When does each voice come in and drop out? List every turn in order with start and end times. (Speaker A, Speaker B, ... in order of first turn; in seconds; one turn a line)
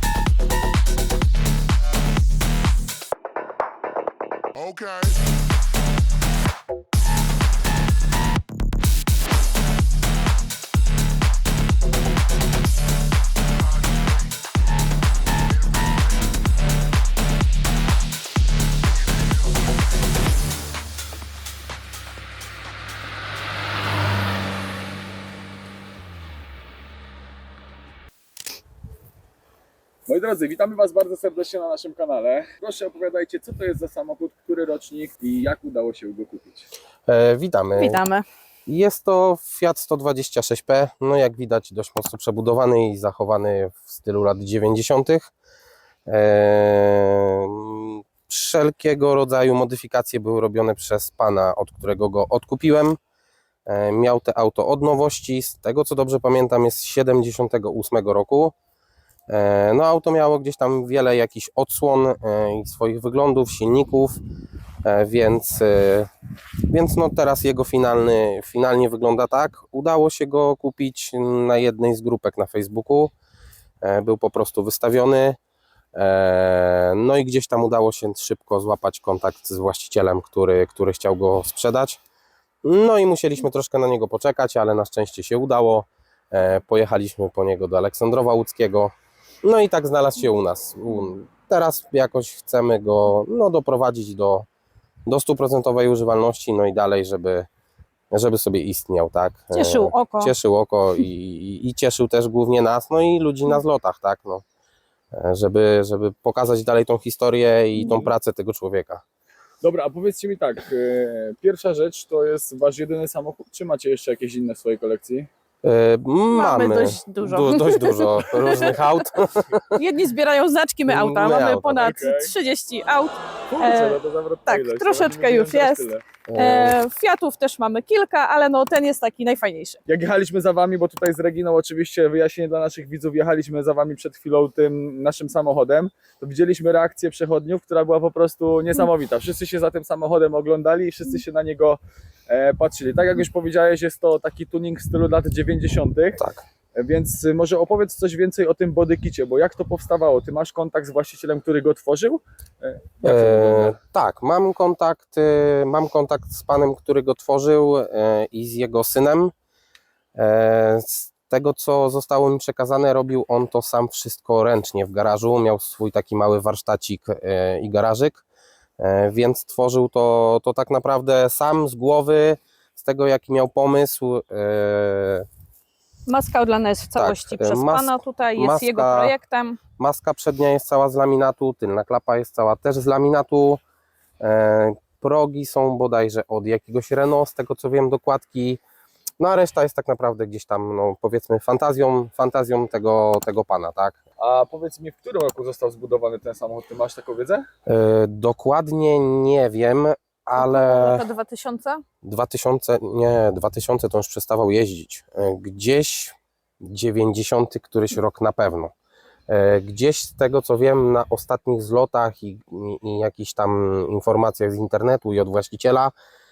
Speaker A: 30.1-36.6
Speaker B: 37.1-38.0
Speaker C: 37.8-38.2
Speaker B: 38.7-45.3
Speaker B: 46.1-53.0
Speaker B: 53.6-58.5
Speaker B: 59.3-64.2
Speaker B: 64.8-66.1
Speaker B: 66.7-73.1
Speaker B: 73.8-75.4
Speaker B: 75.9-82.0
Speaker B: 82.6-94.5
Speaker B: 95.1-97.5
Speaker B: 98.1-104.4
Speaker C: 99.5-100.3
Speaker B: 105.1-109.0
Speaker A: 109.6-115.3
Speaker B: 115.6-119.8
Speaker C: 116.3-118.7
Speaker C: 119.8-129.8
Speaker B: 120.8-122.0
Speaker A: 121.8-122.3
Speaker A: 123.5-126.0
Speaker B: 126.3-126.8
Speaker A: 129.9-146.2
Speaker A: 146.7-153.8
Speaker B: 153.0-159.3
Speaker B: 160.1-168.2
Speaker B: 168.8-175.3
Speaker C: 176.1-179.6
Speaker B: 177.0-179.1
Speaker B: 179.8-183.6
Speaker B: 184.2-188.6
Speaker B: 189.2-194.0
Speaker A: 194.2-197.5
Speaker B: 197.7-201.1
Speaker C: 200.4-201.8
Speaker B: 202.0-208.7
Speaker B: 209.3-215.9